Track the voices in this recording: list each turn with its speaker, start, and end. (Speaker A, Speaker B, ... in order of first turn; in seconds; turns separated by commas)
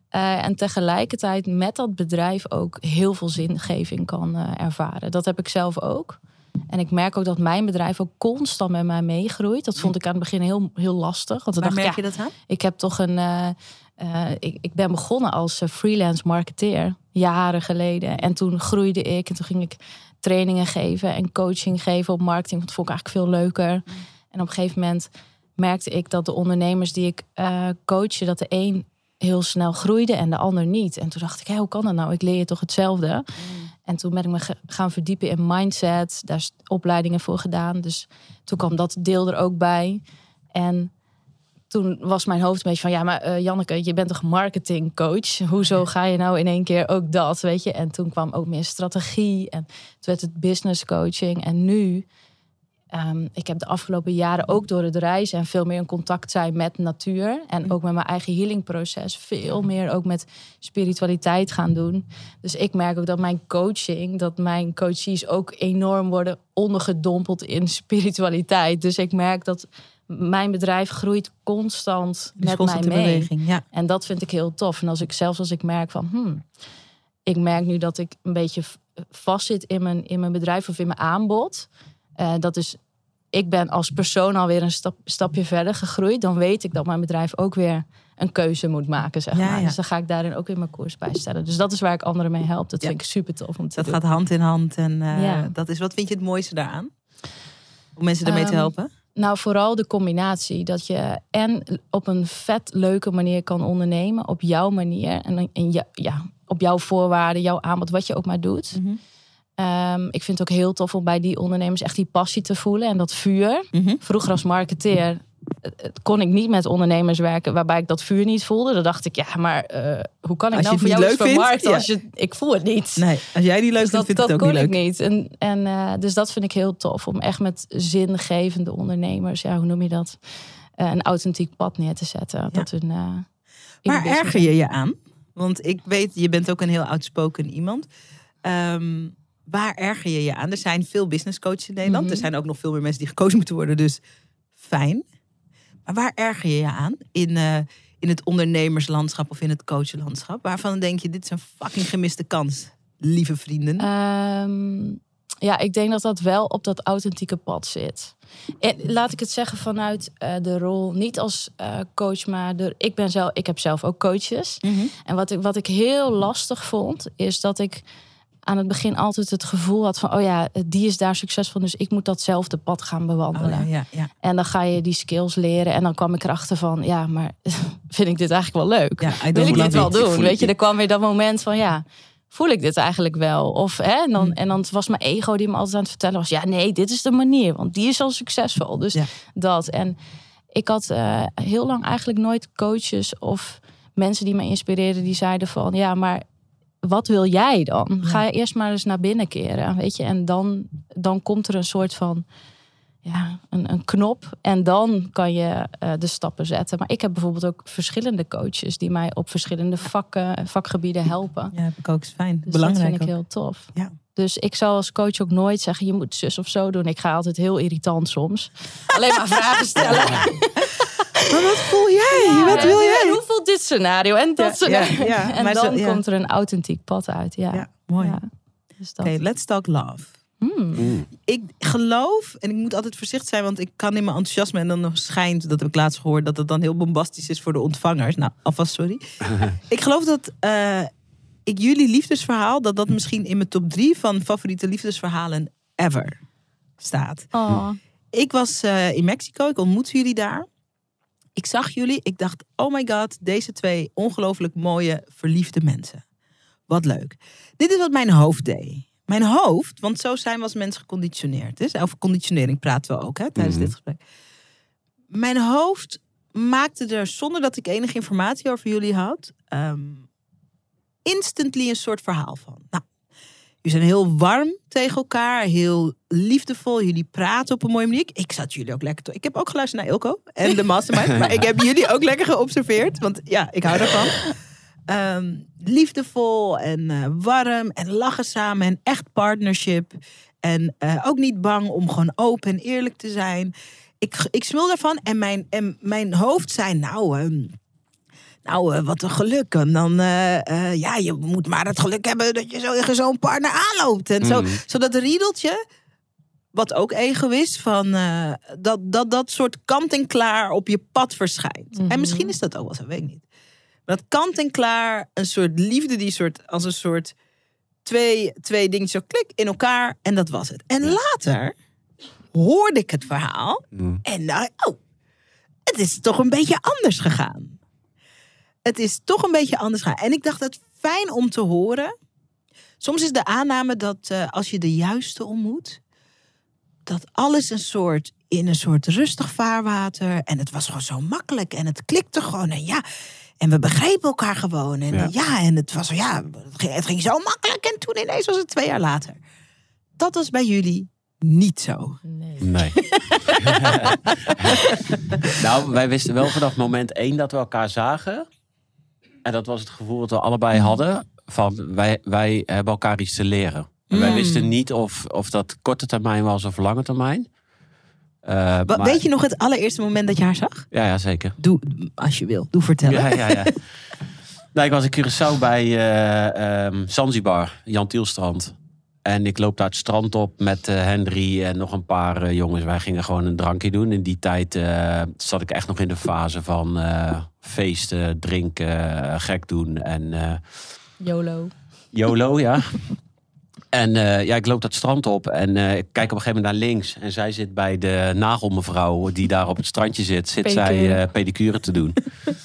Speaker A: 0.1-6.2, Speaker A: 6.7-33.2, Speaker B: 11.6-12.3, Speaker B: 33.4-33.7, Speaker A: 33.8-40.0, Speaker A: 40.5-40.9, Speaker A: 41.7-52.1, Speaker A: 52.9-76.4, Speaker B: 72.4-73.6, Speaker A: 77.2-82.8, Speaker A: 83.3-94.0, Speaker B: 89.3-89.7, Speaker B: 93.8-96.9, Speaker A: 95.1-95.5, Speaker B: 98.0-98.9, Speaker A: 98.2-108.8, Speaker B: 108.7-109.0, Speaker A: 109.6-123.0, Speaker B: 113.7-114.0, Speaker B: 120.5-121.9, Speaker B: 123.0-124.7, Speaker A: 123.8-130.2, Speaker A: 130.8-133.2, Speaker A: 133.8-134.5, Speaker B: 133.8-137.9, Speaker B: 138.4-144.0, Speaker A: 141.8-142.2, Speaker B: 144.6-145.0, Speaker B: 145.8-153.9, Speaker A: 153.8-167.8, Speaker B: 164.6-164.9, Speaker A: 168.4-173.7, Speaker B: 173.3-174.1, Speaker A: 174.2-190.0, Speaker B: 179.0-179.9, Speaker C: 179.4-180.5, Speaker A: 190.5-196.2, Speaker A: 196.8-202.2, Speaker A: 203.0-211.5, Speaker B: 211.5-213.1, Speaker A: 212.5-221.2, Speaker B: 219.8-220.1, Speaker B: 221.2-223.2, Speaker A: 222.1-228.3, Speaker B: 224.4-226.0, Speaker B: 227.5-228.2, Speaker A: 228.8-229.1, Speaker B: 229.0-230.1, Speaker A: 230.4-231.0, Speaker C: 230.8-231.1, Speaker B: 231.2-240.9, Speaker B: 241.4-246.1, Speaker B: 246.8-247.3, Speaker A: 247.3-247.8, Speaker B: 248.1-250.5, Speaker B: 251.3-256.0, Speaker B: 256.7-264.0, Speaker C: 263.4-263.7, Speaker B: 265.1-270.1, Speaker B: 271.0-272.8, Speaker B: 273.6-284.2, Speaker B: 284.9-297.6, Speaker B: 298.4-305.6, Speaker C: 304.2-304.6, Speaker B: 306.5-313.2, Speaker A: 311.8-312.3, Speaker B: 313.9-317.1, Speaker B: 317.8-321.5, Speaker B: 322.3-324.8, Speaker C: 323.8-324.0, Speaker B: 325.6-327.6, Speaker B: 328.6-331.9, Speaker B: 332.8-335.8, Speaker B: 336.9-342.8, Speaker B: 343.4-349.2, Speaker B: 350.0-352.0, Speaker A: 352.0-354.8, Speaker C: 352.4-352.8, Speaker B: 353.3-353.8, Speaker C: 353.4-354.6, Speaker C: 355.3-358.2, Speaker C: 359.2-367.3, Speaker B: 363.9-364.5, Speaker C: 368.2-369.0, Speaker B: 368.7-370.7, Speaker C: 370.7-371.3, Speaker B: 371.4-373.5, Speaker C: 372.9-373.7, Speaker C: 374.5-390.4, Speaker A: 391.0-391.5, Speaker C: 391.9-392.8, Speaker C: 393.7-402.1, Speaker A: 400.4-401.0